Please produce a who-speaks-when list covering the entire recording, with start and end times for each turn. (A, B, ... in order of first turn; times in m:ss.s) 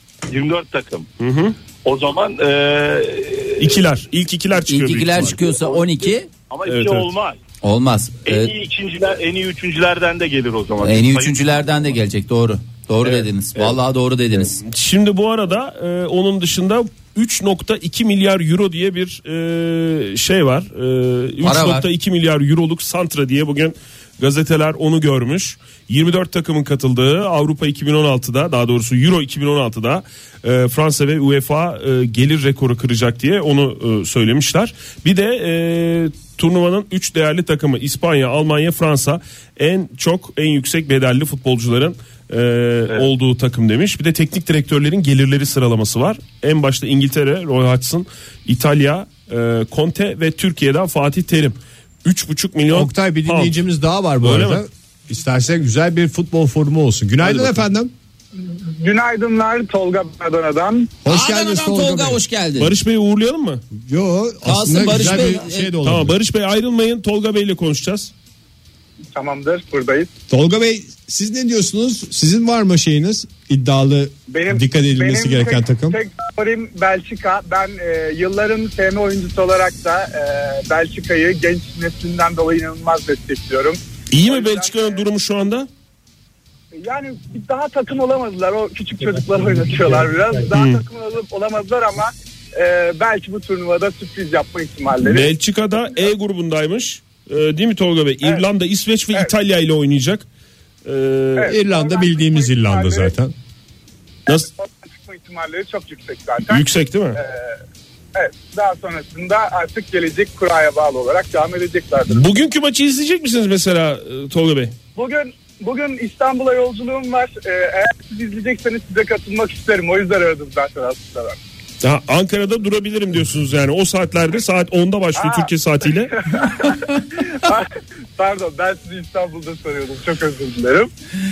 0:00.3-0:01.1 A
0:01.2-0:01.6 B
0:01.8-0:03.8 A
0:03.6-0:05.4 B
0:04.6-0:06.3 C
0:05.4-0:07.4 A
0:06.6-0:07.1 B
0:07.6-0:08.5 C
0:08.2-0:11.5 A
0:10.8-0:14.6 C
0:14.6-0:53.5 B
0:21.4-0:21.9 C
0:52.7-0:57.9 D
0:54.2-0:54.6 B
0:57.2-0:57.6 B
0:58.4-1:00.9 E
1:01.0-1:02.2 D
1:01.0-1:02.7 C
1:02.6-1:03.6 B
1:03.8-1:06.1 D
1:04.4-1:05.7 C
1:05.8-1:08.1 B
1:09.1-1:10.1 E
1:10.3-1:16.0 D
1:14.3-1:25.0 E
1:24.1-1:25.7 B
1:26.8-1:35.3 E
1:30.5-1:30.8 B
1:35.0-1:40.2 B
1:40.8-1:41.5 B
1:41.4-1:43.2 E
1:41.4-1:43.3 D
1:44.3-1:46.6 E
1:46.5-1:47.2 B
1:48.1-1:52.2 E
1:52.1-1:54.7 B
1:55.0-2:01.4 E
2:01.8-2:06.1 B
2:05.2-2:05.5 E
2:06.1-2:10.9 E